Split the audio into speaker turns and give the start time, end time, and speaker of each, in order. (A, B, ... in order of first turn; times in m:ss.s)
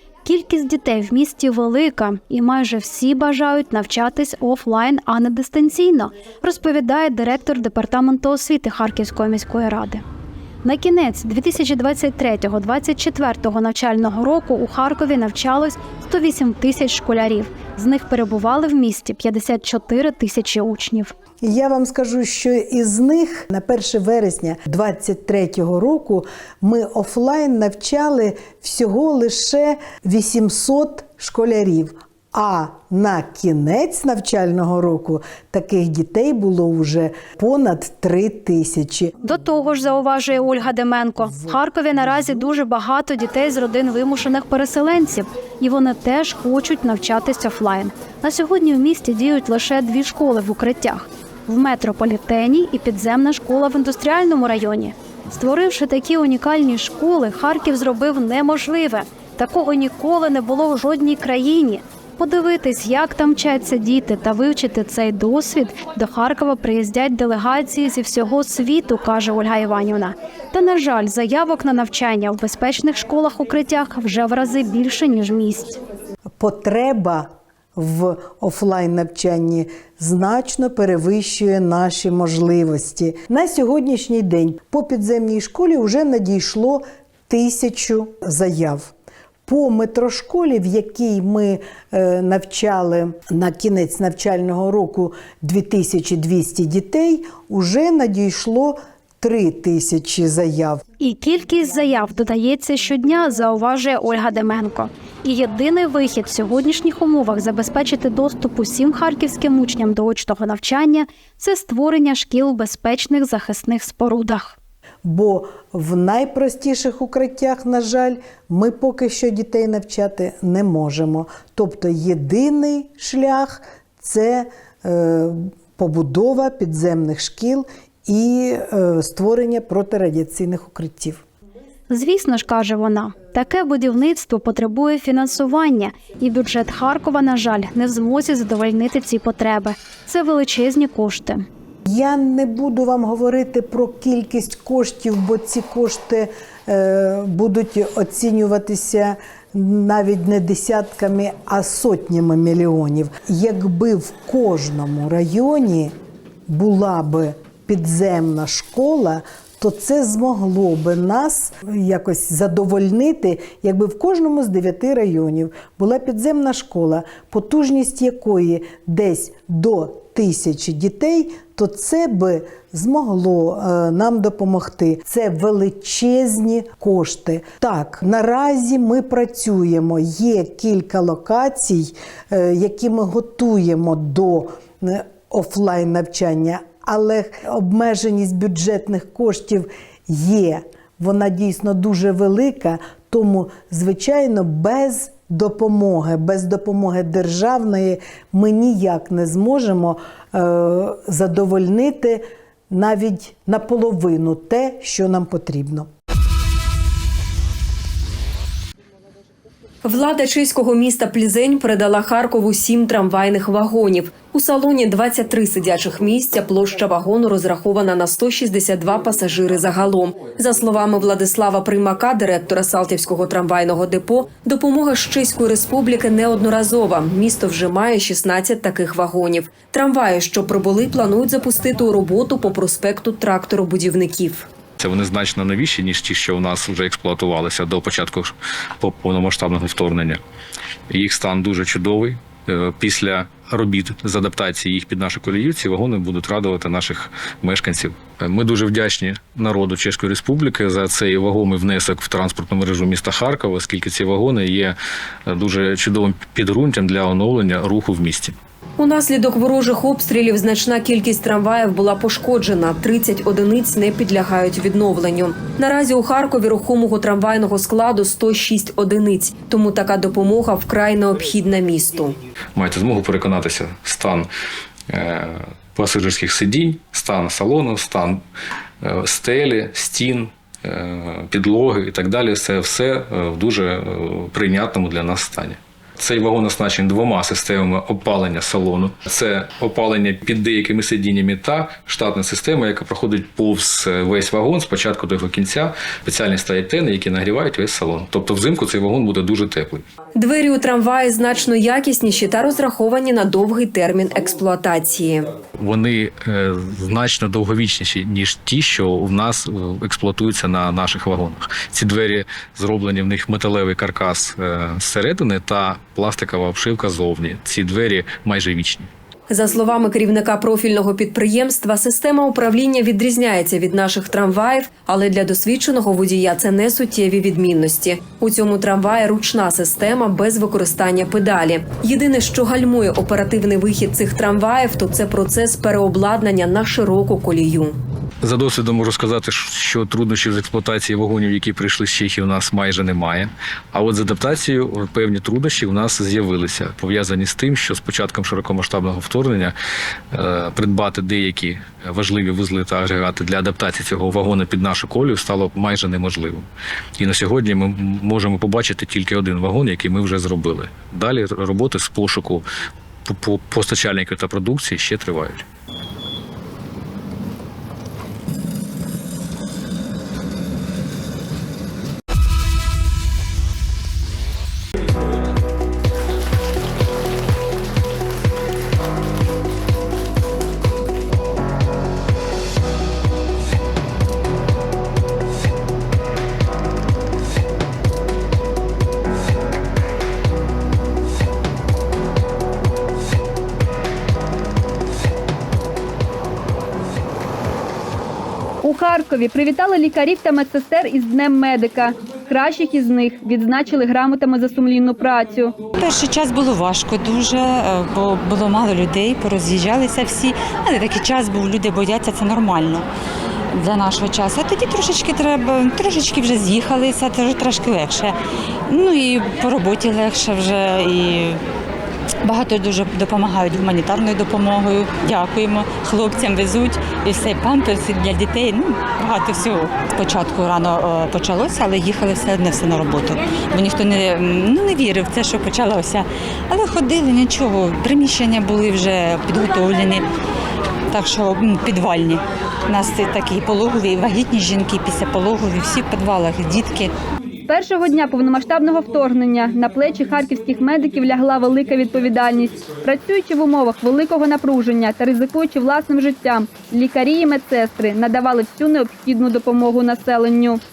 0:00.2-0:10.0 A
0:10.6-0:21.1 A
0:21.4-0:39.1 B
0:39.2-1:15.8 A
1:16.4-1:28.9 B
1:29.5-1:40.8 B
1:41.0-1:54.6 A
1:55.0-2:11.2 B
2:11.9-2:21.5 A
2:21.9-2:36.0 B
2:36.5-3:25.9 B
3:29.8-3:54.5 C
3:54.8-4:00.2 D
4:00.9-4:18.4 D
4:18.8-4:32.2 C
4:32.6-4:34.3 D
4:34.9-4:38.2 D
4:38.8-4:59.8 D
5:00.2-5:05.3 C
5:05.6-5:18.9 D
5:19.3-5:37.8 C
5:38.2-5:49.6 D
5:50.1-5:56.5 D
5:57.0-6:02.5 D
6:03.0-6:05.4 D
6:38.7-6:45.4 E
6:45.8-6:52.9 F
6:53.5-6:58.2 F
6:58.7-7:01.4 F
7:02.2-7:20.1 F
7:20.9-7:26.9 F
7:27.5-7:40.6 E